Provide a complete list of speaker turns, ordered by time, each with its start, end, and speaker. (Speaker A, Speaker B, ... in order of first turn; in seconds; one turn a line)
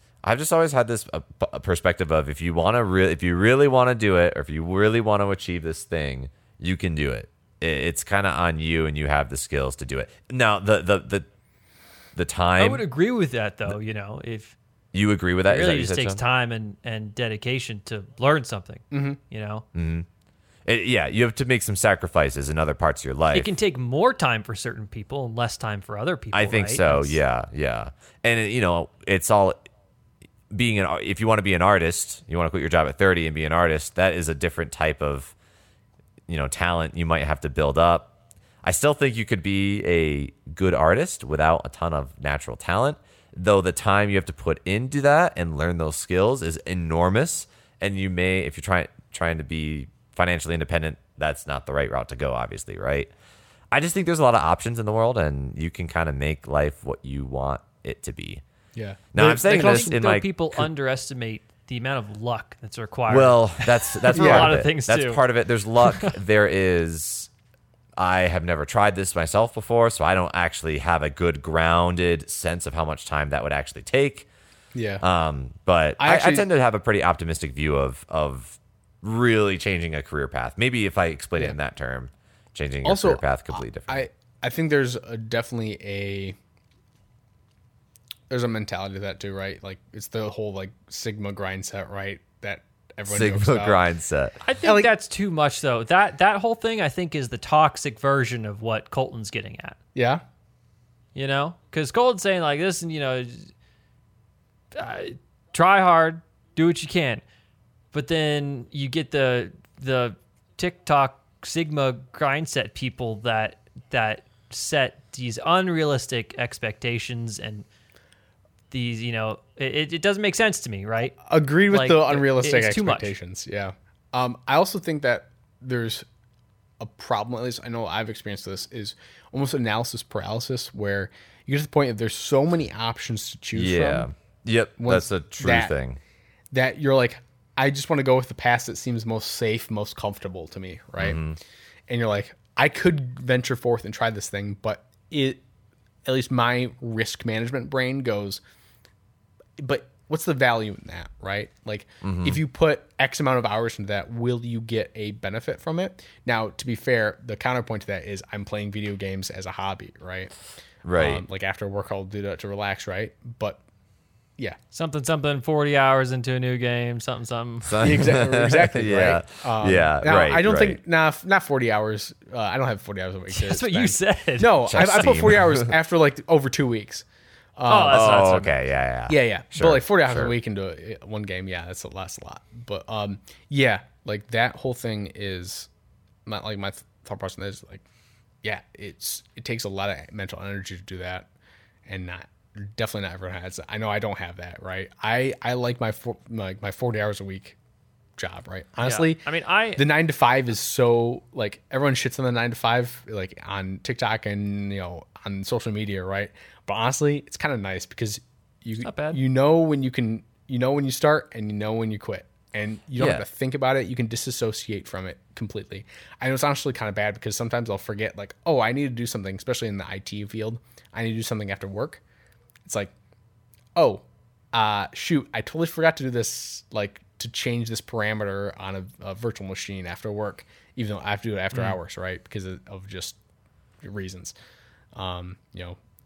Speaker A: 0.2-11.3
Speaker A: 12.2-12.8
Speaker B: 12.6-14.6
Speaker A: 14.9-16.2
Speaker B: 15.5-19.6
Speaker C: 18.9-19.2
Speaker A: 19.7-20.1
Speaker A: 20.6-23.5
Speaker B: 23.3-27.2
Speaker A: 26.3-29.6
Speaker A: 30.5-35.3
Speaker A: 36.3-38.1
Speaker A: 38.6-53.1
Speaker A: 53.7-58.4
Speaker C: 58.8-60.0
Speaker A: 59.1-60.6
Speaker B: 59.4-65.2
Speaker A: 63.1-67.3
Speaker C: 64.2-64.6
Speaker B: 65.8-66.2
Speaker A: 68.0-74.3
Speaker C: 74.8-75.0
Speaker A: 75.0-84.1
Speaker C: 76.0-76.5
Speaker C: 82.8-86.4
Speaker C: 88.3-93.8
Speaker A: 93.1-94.4
Speaker B: 94.4-99.8
Speaker C: 94.6-94.9
Speaker C: 100.0-100.2
Speaker B: 101.2-103.5
Speaker B: 104.7-107.2
Speaker B: 107.9-117.7
Speaker B: 118.7-121.2
Speaker C: 121.3-126.0
Speaker B: 121.7-123.1
Speaker C: 126.8-134.1
Speaker A: 133.5-136.0
Speaker C: 134.8-135.7
Speaker C: 136.5-141.2
Speaker A: 141.0-141.4
Speaker C: 141.9-145.4
Speaker C: 146.1-148.4
Speaker C: 149.6-160.3
Speaker A: 152.0-152.4
Speaker A: 160.8-161.2
Speaker C: 160.9-163.6
Speaker B: 164.7-167.9
Speaker A: 167.7-170.8
Speaker C: 167.8-177.0
Speaker B: 173.3-175.1
Speaker A: 174.7-175.7
Speaker C: 177.6-178.3
Speaker B: 177.7-178.5
Speaker A: 177.9-180.3
Speaker C: 179.1-185.7
Speaker C: 186.3-187.8
Speaker C: 188.4-191.3
Speaker C: 191.9-197.6
Speaker C: 198.2-222.0
Speaker B: 198.8-199.8
Speaker B: 208.8-209.2
Speaker A: 213.0-213.2
Speaker C: 222.7-222.9
Speaker C: 223.8-233.2
Speaker C: 233.8-234.3
Speaker C: 234.9-235.8